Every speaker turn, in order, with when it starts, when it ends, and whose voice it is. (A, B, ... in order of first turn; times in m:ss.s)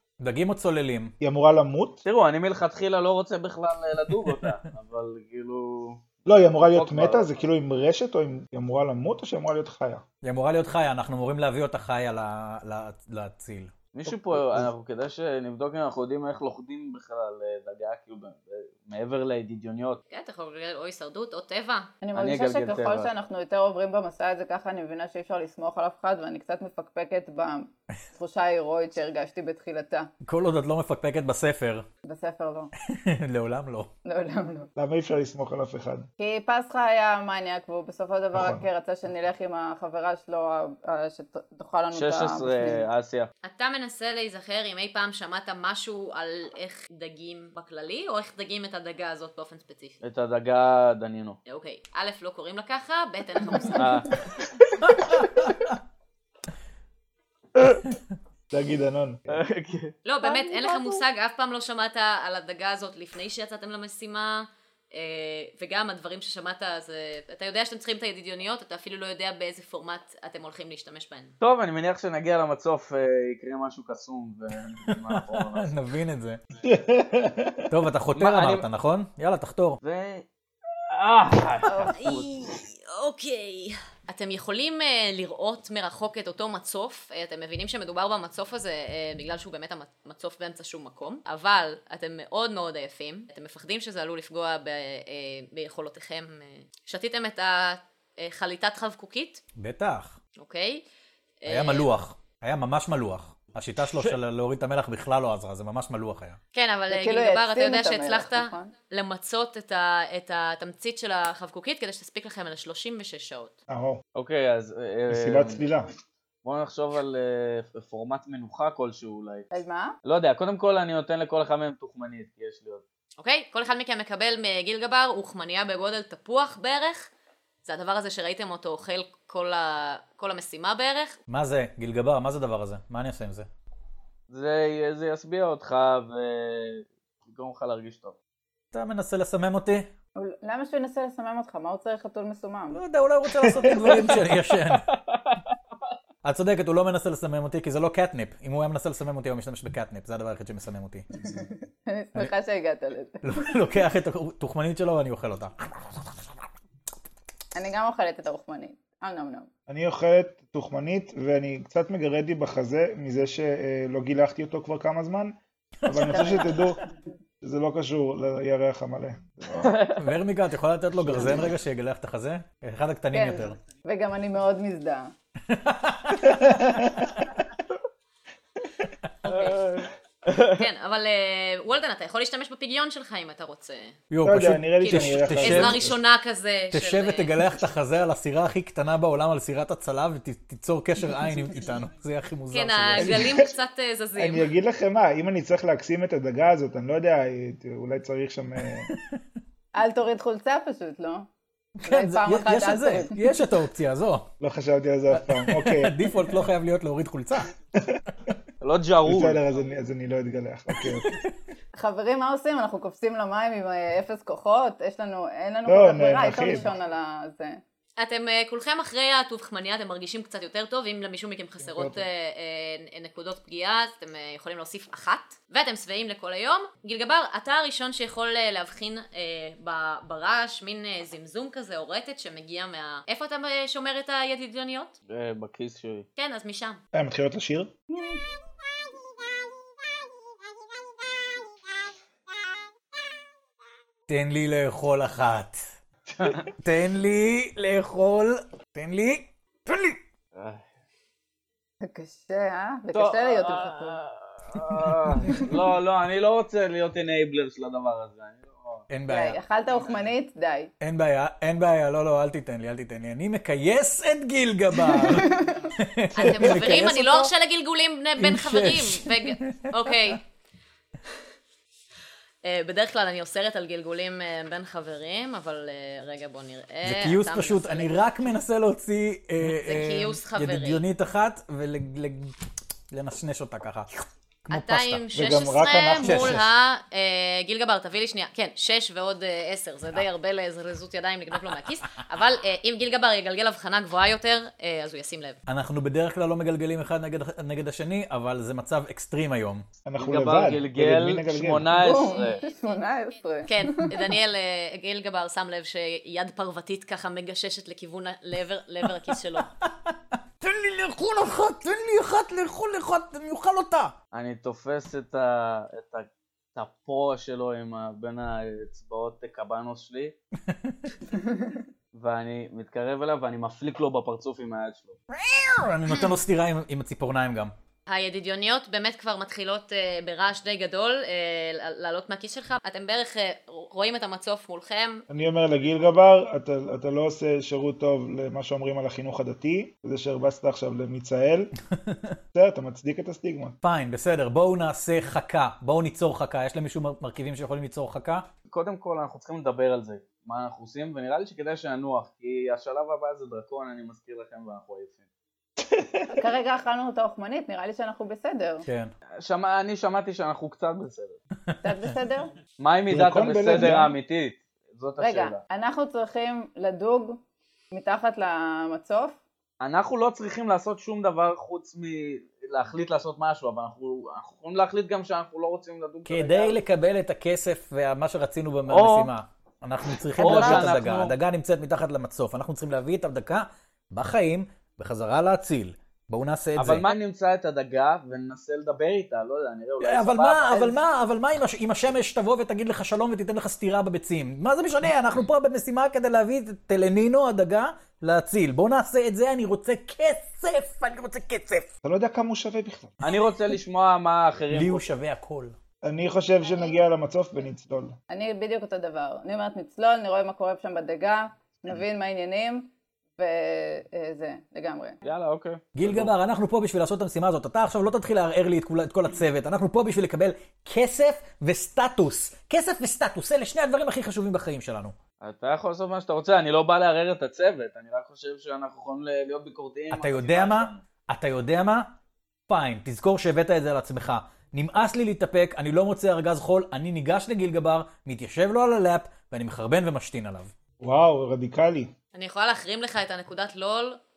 0:00.2-0:01.1 A
0:01.2-0:02.0 B
0:02.0-0:06.0 C
0:06.3-0:10.0 B
0:06.6-0:07.3 C
0:10.2-0:13.7 A
0:13.9-0:20.0 C
0:14.1-0:14.7 B
0:20.1-0:21.9 D
0:22.0-0:30.1 E
0:22.2-0:23.1 C
0:30.2-0:31.9 A
0:32.0-0:32.7 E
0:32.8-0:33.9 A
0:34.0-0:34.7 E
0:34.8-0:36.1 B
0:36.2-0:42.9 E
0:38.3-0:38.6 B
0:41.9-0:43.3 C
0:43.4-0:50.0 D
0:50.0-0:51.4 C
0:51.5-0:54.1 D
0:53.8-0:54.2 C
0:54.9-0:55.8 A
0:58.5-0:59.4 B
0:59.3-1:00.0 C
1:00.0-1:11.4 D
1:00.2-1:00.9 E
1:11.4-1:15.8 C
1:14.9-1:16.4 A
1:16.6-1:17.7 B
1:17.7-1:19.8 A
1:18.2-1:18.7 C
1:19.8-1:20.3 C
1:20.9-1:22.3 C
1:21.7-1:22.0 E
1:21.8-1:39.4 D
1:39.6-1:40.2 A
1:40.4-1:40.8 D
1:41.4-1:41.9 D
1:41.5-1:46.4 A
1:46.5-1:53.5 D
1:46.9-1:48.7 E
1:53.7-1:54.0 B
1:54.2-1:55.7 C
1:55.1-1:55.9 B
1:56.4-1:59.5 C
1:59.5-2:00.0 E
2:00.0-2:02.8 C
2:03.2-2:07.1 D
2:07.6-2:11.2 D
2:11.3-2:13.5 A
2:14.3-2:18.2 C
2:18.7-2:19.9 A
2:20.2-2:22.8 E
2:22.7-2:24.9 A
2:23.4-2:24.0 B
2:24.7-2:25.4 C
2:26.2-2:31.1 A
2:31.3-2:33.5 E
2:33.2-2:36.2 A
2:37.6-2:39.5 E
2:39.7-2:46.8 B
2:45.8-2:46.3 A
2:46.1-2:46.7 E
2:47.4-2:49.8 B
2:49.6-2:50.0 C
2:50.0-2:53.6 A
2:51.0-2:51.5 B
2:53.1-2:55.1 E
2:55.5-2:56.6 A
2:56.2-2:57.1 B
2:59.2-2:59.6 D
2:59.3-3:00.6 C
3:00.6-3:04.0 D
3:04.1-3:05.9 A
3:04.2-3:06.0 B
3:04.8-3:07.3 D
3:06.7-3:13.4 A
3:12.5-3:14.5 D
3:13.0-3:13.5 B
3:14.2-3:18.9 B
3:18.9-3:19.2 A
3:19.8-3:21.3 E
3:21.8-3:24.3 A
3:21.9-3:23.2 E
3:24.4-3:26.1 B
3:25.1-3:27.5 A
3:27.8-3:28.0 B
3:28.6-3:29.4 C
3:29.0-3:31.2 B
3:30.8-3:31.3 A
3:31.8-3:37.6 E
3:35.7-3:36.8 B
3:38.0-3:55.0 D
3:41.6-3:42.0 B
3:55.1-3:56.1 C
3:56.2-3:56.8 D
3:56.9-3:57.7 B
4:04.1-4:05.6 A
4:06.6-4:10.0 A
4:10.3-4:10.7 C
4:11.8-4:14.0 E
4:12.9-4:18.9 C
4:18.9-4:19.4 A
4:19.1-4:20.7 E
4:20.8-4:27.3 A
4:24.9-4:25.6 E
4:26.2-4:30.2 D
4:28.2-4:30.2 A
4:32.4-4:38.0 D
4:36.8-4:42.3 A
4:39.4-4:40.8 D
4:42.9-4:45.0 A
4:44.5-4:55.4 D
4:45.1-4:46.5 B
4:46.0-4:46.5 A
4:55.5-4:59.7 A
4:59.8-5:01.8 B
5:00.0-5:02.4 C
5:01.7-5:04.0 E
5:03.5-5:09.5 D
5:09.6-5:13.9 A
5:14.1-5:20.2 C
5:20.5-5:20.9 A
5:21.2-5:21.5 E
5:21.9-5:25.0 C
5:25.1-5:27.5 A
5:27.9-5:35.0 D
5:35.1-5:41.5 B
5:41.7-5:42.2 A
5:42.3-5:43.6 B
5:43.6-5:48.2 A
5:48.5-5:55.0 C
5:55.6-5:56.2 B
5:56.2-5:58.7 E
5:58.6-5:58.9 A
5:59.2-6:01.2 C
6:01.6-6:02.3 E
6:02.6-6:05.4 C
6:02.9-6:03.9 B
6:05.0-6:09.2 E
6:09.6-6:16.6 C
6:16.1-6:26.9 A
6:18.7-6:19.1 C
6:20.2-6:20.8 E
6:20.2-6:21.2 C
6:26.6-6:30.7 C
6:29.8-6:41.7 A
6:41.8-6:43.0 B
6:43.0-6:44.9 C
6:44.5-6:45.6 A
6:45.8-6:48.0 B
6:48.1-6:55.0 E
6:55.0-6:56.1 C
6:55.8-7:05.0 A
7:05.2-7:10.8 C
7:09.9-7:11.9 A
7:12.5-7:20.5 A
7:20.8-7:21.9 B
7:22.1-7:24.0 D